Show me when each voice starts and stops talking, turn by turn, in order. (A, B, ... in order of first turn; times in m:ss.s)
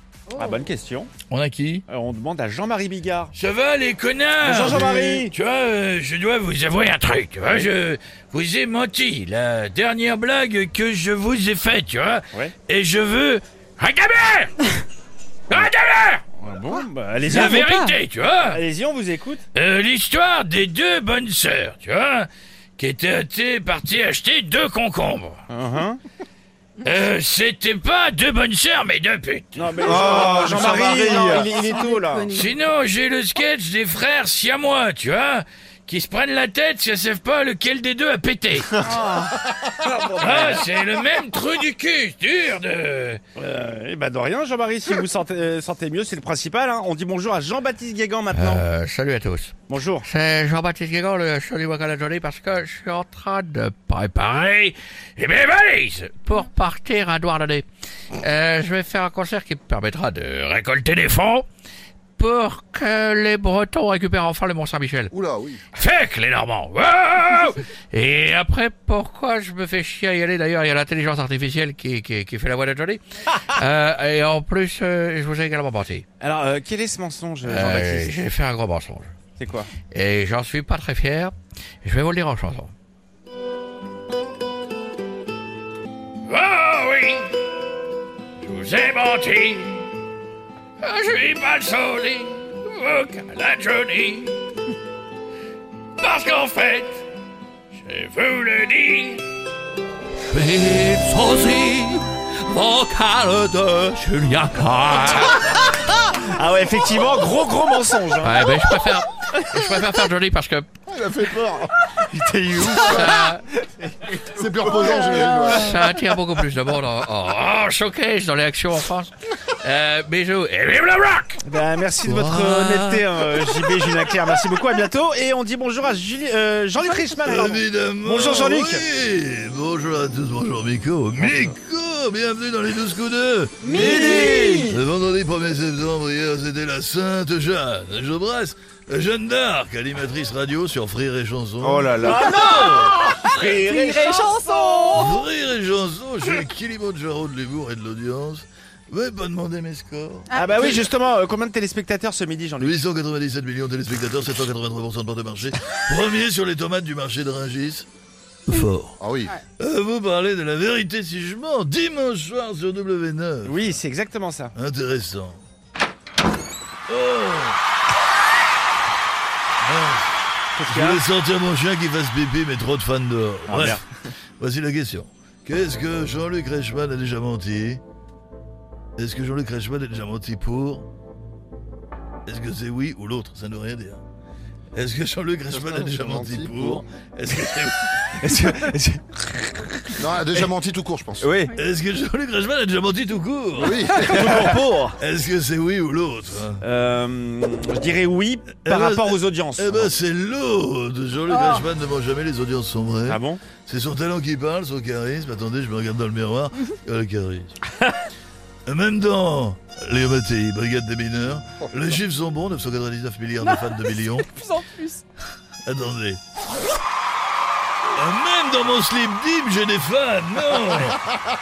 0:00.3-0:01.1 A
0:00.4-0:00.6 B
0:01.3-0:01.8 C
0:01.9-0:03.3 A
0:03.3-0:14.5 C
0:04.4-0:05.3 A
0:15.5-0:16.2 C
0:16.4-0:17.6 A
0:17.2-0:18.6 C
0:17.5-0:18.0 B
0:18.4-0:19.4 A
0:19.5-0:25.4 C
0:25.5-0:26.0 A
0:26.8-0:30.5 C
0:29.5-0:32.4 A
0:29.8-0:32.5 B
0:32.3-0:38.8 C
0:38.8-0:40.6 A
0:38.9-0:39.4 B
0:40.2-0:43.2 C
0:43.4-0:48.6 A
0:48.3-0:57.6 C
0:49.7-0:50.1 A
0:58.2-1:01.4 C
1:02.2-1:05.1 C
1:05.1-1:05.6 D
1:05.7-1:16.0 C
1:16.2-1:18.2 A
1:17.4-1:19.1 C
1:19.4-1:19.7 A
1:19.9-1:22.7 C
1:26.3-1:27.3 C
1:28.4-1:29.9 C
1:30.8-1:34.4 C
1:36.0-1:37.0 C
1:37.7-1:39.2 C
1:40.3-1:45.6 C
1:45.7-1:48.4 A
1:48.2-1:50.7 C
1:50.9-1:51.7 D
1:52.0-1:53.0 A
1:52.7-1:53.1 D
1:52.8-1:53.4 C
1:54.3-1:55.8 D
1:55.4-1:59.1 C
1:59.6-2:01.4 C
2:01.4-2:08.8 A
2:02.1-2:02.9 C
2:07.2-2:23.1 E
2:11.2-2:11.5 A
2:13.6-2:14.7 A
2:14.0-2:14.6 B
2:21.6-2:25.0 A
2:22.2-2:25.2 B
2:24.9-2:30.8 E
2:30.3-2:30.8 B
2:30.3-2:32.9 A
2:32.6-2:37.9 E
2:38.5-2:39.0 E
2:39.0-2:39.3 D
2:39.6-2:43.7 E
2:43.4-2:44.5 A
2:44.5-2:45.4 E
2:46.9-2:47.6 E
2:49.6-2:50.1 E
2:50.6-2:51.0 A
2:50.6-2:53.8 E
2:53.5-2:53.8 A
2:54.4-2:57.8 E
2:59.0-3:00.9 E
3:02.2-3:04.0 E
3:04.7-3:08.2 E
3:05.5-3:06.8 D
3:08.1-3:10.5 A
3:10.0-3:11.3 D
3:11.2-3:11.5 A
3:11.5-3:16.6 E
3:13.6-3:14.5 D
3:13.9-3:14.9 A
3:16.6-3:19.9 A
3:18.6-3:27.6 E
3:21.3-3:21.6 B
3:23.0-3:23.4 A
3:28.6-3:34.4 E
3:33.4-3:35.0 B
3:35.6-3:36.2 E
3:37.9-3:41.1 E